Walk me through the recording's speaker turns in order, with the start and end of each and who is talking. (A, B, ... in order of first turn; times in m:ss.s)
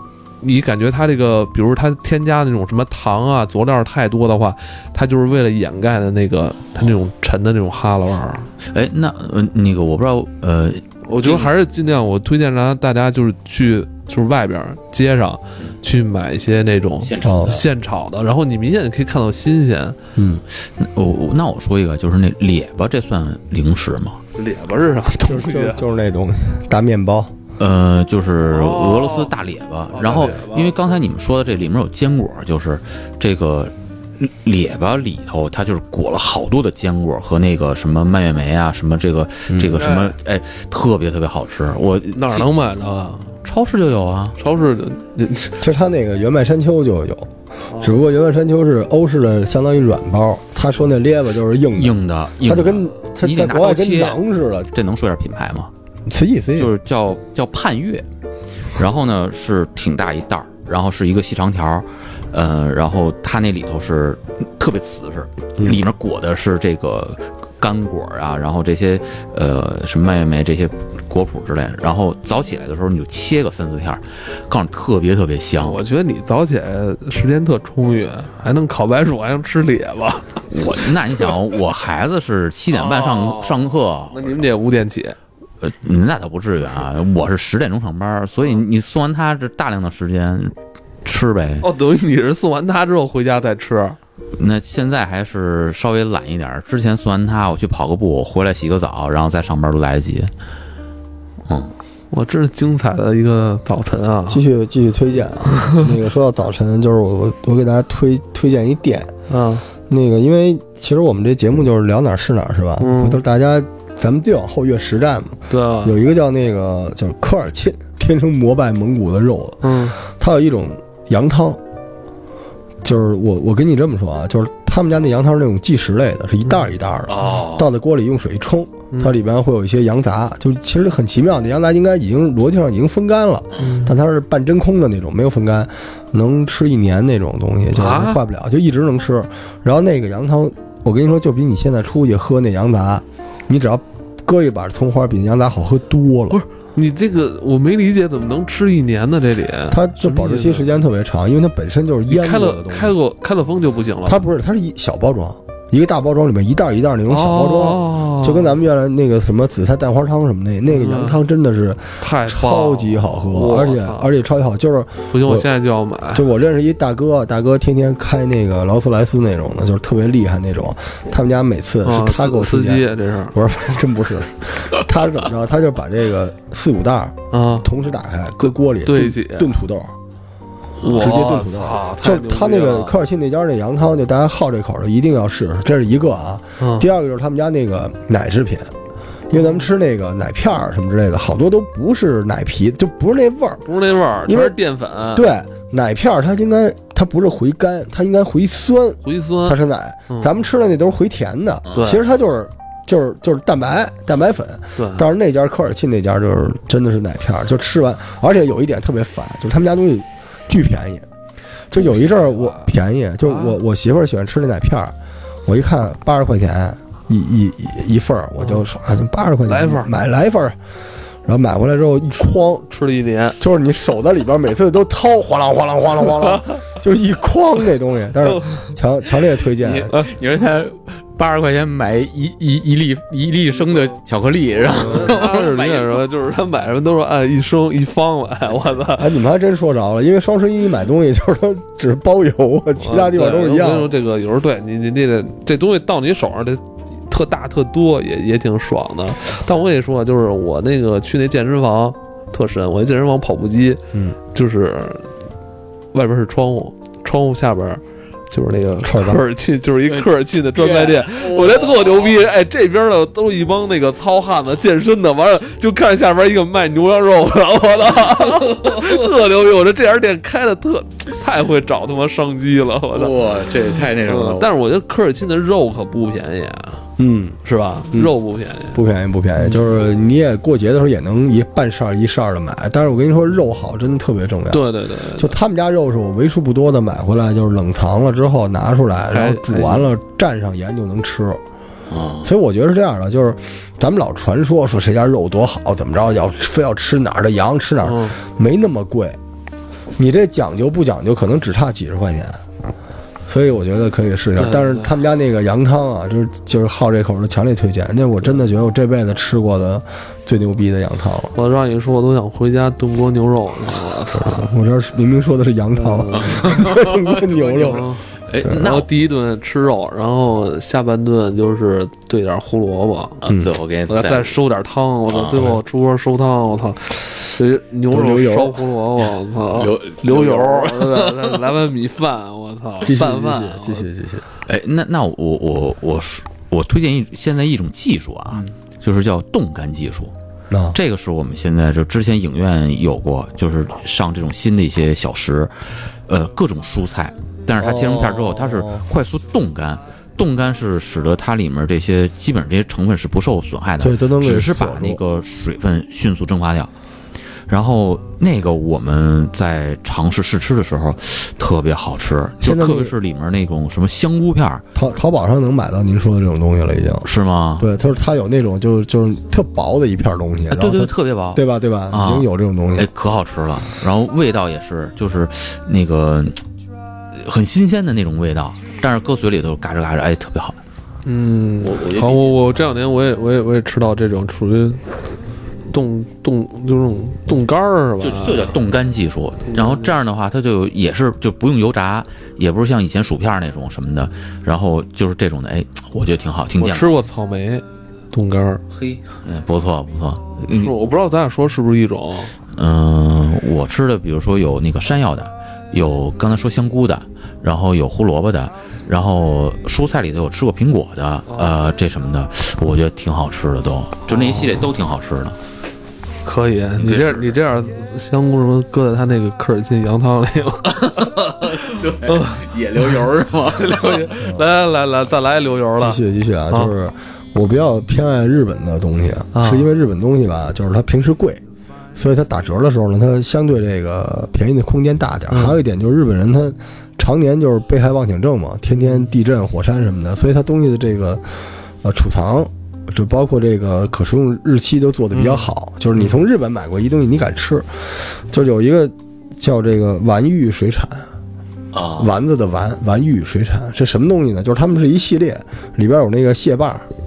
0:00.4-0:08.5 A
0:08.6-0:11.5 B
0:11.1-0:20.0 A
0:17.0-0:17.6 B
0:17.2-0:17.6 C
0:20.2-0:20.4 C
0:20.5-0:24.2 B
0:24.4-0:25.8 A
0:25.2-0:27.3 C
0:27.6-0:42.4 B
0:28.5-0:29.3 A
0:29.9-0:30.7 A
0:39.5-0:39.8 C
0:39.7-0:40.1 A
0:42.1-0:43.3 A
0:43.4-0:44.4 B
0:44.4-0:45.6 A
0:45.6-0:54.7 C
0:47.7-0:48.0 A
0:51.7-0:54.2 B
0:54.7-0:55.7 B
0:56.1-0:56.7 C
0:56.6-0:58.0 B
0:58.8-1:15.8 B
1:15.6-1:20.4 A
1:20.5-1:24.4 B
1:22.7-1:25.2 A
1:25.6-1:31.7 B
1:31.6-1:34.0 A
1:34.3-1:40.3 B
1:41.4-1:41.7 B
1:42.1-1:44.4 A
1:44.3-1:49.1 C
1:49.3-1:49.6 A
1:49.9-2:01.6 C
1:52.8-1:53.2 A
1:55.5-1:55.9 A
1:59.6-2:00.0 A
2:02.8-2:26.4 C
2:07.1-2:07.7 B
2:13.6-2:13.9 A
2:17.7-2:18.2 A
2:26.3-2:30.7 A
2:29.7-2:32.9 C
2:32.1-2:34.2 A
2:34.0-2:45.5 C
2:37.1-2:38.6 A
2:40.7-2:41.2 A
2:42.0-2:44.1 A
2:45.1-2:46.2 A
2:46.1-2:59.9 C
2:51.8-2:53.4 A
2:57.3-2:57.6 A
2:58.4-2:59.5 A
3:00.8-3:03.0 A
3:00.9-3:08.7 C
3:06.6-3:06.9 A
3:09.3-3:13.6 C
3:09.3-3:09.6 A
3:13.6-3:15.3 A
3:14.2-3:14.6 C
3:15.1-3:31.1 C
3:19.0-3:19.6 A
3:21.7-3:21.9 B
3:21.7-3:22.0 A
3:24.8-3:25.0 A
3:31.7-3:34.9 C
3:31.8-3:32.7 A
3:33.2-3:33.6 A
3:35.4-3:40.6 C
3:39.4-3:39.9 A
3:41.2-3:42.7 C
3:42.7-3:43.4 A
3:43.4-3:49.9 C
3:48.2-3:48.7 A
3:49.6-3:56.0 B
3:54.7-3:59.1 A
3:59.0-4:03.9 C
4:02.8-4:15.1 A
4:15.9-4:36.8 A
4:18.8-4:19.2 C
4:19.9-4:22.2 B
4:32.9-4:34.5 B
4:37.0-4:37.4 C
4:37.4-4:38.8 A
4:38.7-4:51.4 C
4:39.4-4:39.6 A
4:44.5-4:45.4 A
4:49.1-4:49.9 A
4:51.9-4:52.3 B
4:52.2-4:59.2 C
4:57.8-4:58.2 A
5:00.0-5:02.4 C
5:03.3-5:11.3 C
5:04.4-5:04.9 A
5:11.3-5:14.5 A
5:14.1-5:17.9 C
5:15.8-5:16.5 A
5:16.1-5:18.9 B
5:17.5-5:23.2 A
5:23.2-5:24.4 B
5:23.9-5:33.9 A
5:25.1-5:25.6 B
5:27.9-5:28.6 C
5:29.5-5:31.4 B
5:32.8-5:34.2 C
5:34.4-5:40.1 B
5:40.5-5:40.8 C
5:40.7-5:56.7 B
5:47.6-5:48.8 C
5:53.8-5:55.0 C
5:57.5-6:04.6 B
6:02.4-6:02.9 C
6:04.7-6:07.1 C
6:07.0-6:07.7 B
6:07.6-6:12.9 C
6:10.5-6:16.4 B
6:17.1-6:20.6 B
6:21.0-6:24.8 A
6:21.6-6:22.4 B
6:25.7-6:28.6 A
6:28.0-6:37.0 B
6:29.5-6:29.9 A
6:36.6-6:38.6 A
6:38.7-6:40.7 B
6:40.5-6:42.3 A
6:42.5-6:55.4 B
6:51.3-6:51.5 A
6:54.1-6:54.6 A
6:56.2-7:02.5 A
6:56.8-6:57.3 B
7:00.7-7:04.1 B
7:03.5-7:06.0 A
7:05.8-7:11.4 C
7:09.3-7:09.7 A
7:11.9-7:21.2 C
7:15.3-7:15.6 A
7:21.8-7:31.1 C
7:25.1-7:25.5 A
7:31.7-7:32.1 B
7:32.0-7:36.9 C